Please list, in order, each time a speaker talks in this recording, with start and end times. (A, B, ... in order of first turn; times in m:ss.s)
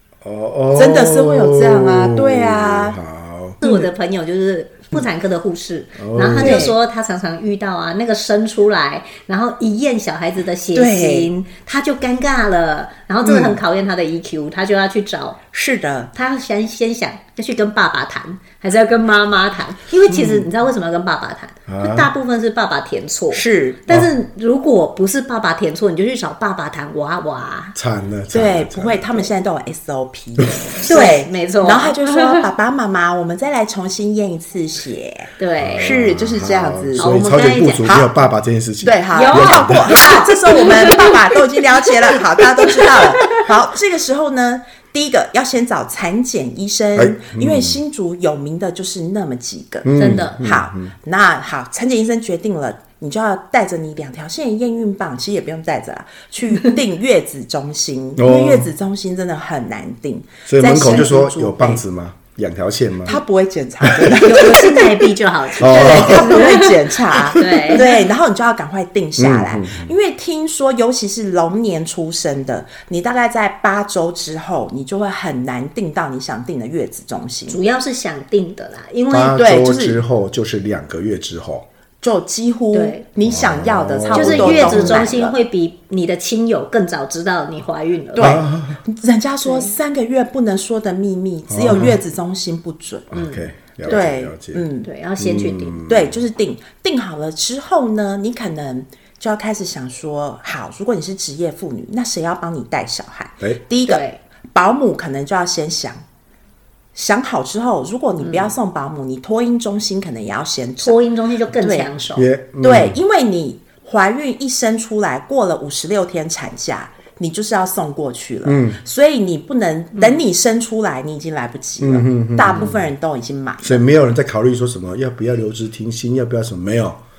0:00.2-0:03.6 A
0:00.7-0:03.0 B
0:03.6-0:03.9 B
0:03.6-0:15.4 C
0:06.0-0:06.6 A
0:06.4-0:06.7 B
0:10.7-0:11.3 B
0:13.2-0:13.6 B
0:15.5-0:16.1 B
0:16.1-0:27.8 C
0:20.1-0:20.5 B
0:21.7-0:22.1 A
0:23.3-0:23.8 B
0:27.8-0:29.3 A
0:28.3-0:37.1 B
0:30.4-0:30.7 A
0:30.8-0:32.4 C
0:35.4-0:36.0 C
0:35.6-0:40.0 A
0:37.0-0:37.9 C
0:37.8-0:38.1 B
0:38.8-1:01.8 B
0:39.1-0:41.2 C
0:42.6-0:43.4 C
0:47.0-0:47.8 A
0:49.8-0:50.9 A
0:50.0-0:50.4 C
0:58.2-0:58.7 A
1:00.5-1:03.2 A
1:03.0-1:04.9 B
1:03.8-1:04.1 A
1:04.2-1:08.0 C
1:05.6-1:06.5 A
1:05.6-1:17.6 B
1:09.2-1:09.9 A
1:17.5-1:19.4 C
1:19.1-1:21.6 A
1:19.3-1:20.0 B
1:22.0-1:25.3 B
1:22.7-1:23.0 C
1:23.2-1:25.1 A
1:24.1-1:28.4 C
1:28.1-1:33.2 B
1:28.2-1:28.8 A
1:29.4-1:29.7 C
1:31.5-1:32.0 A
1:33.1-1:34.6 A
1:33.1-1:34.0 C
1:33.8-1:34.9 B
1:34.8-1:35.8 C
1:35.2-1:36.2 A
1:35.8-1:46.0 B
1:43.9-1:44.2 C
1:46.9-1:51.0 B
1:48.2-1:48.5 C
1:50.8-1:52.3 C
1:51.6-1:51.9 B
1:52.2-1:53.0 A
1:52.6-2:03.8 B
1:58.4-1:58.8 A
2:01.8-2:02.7 A
2:03.6-2:07.0 A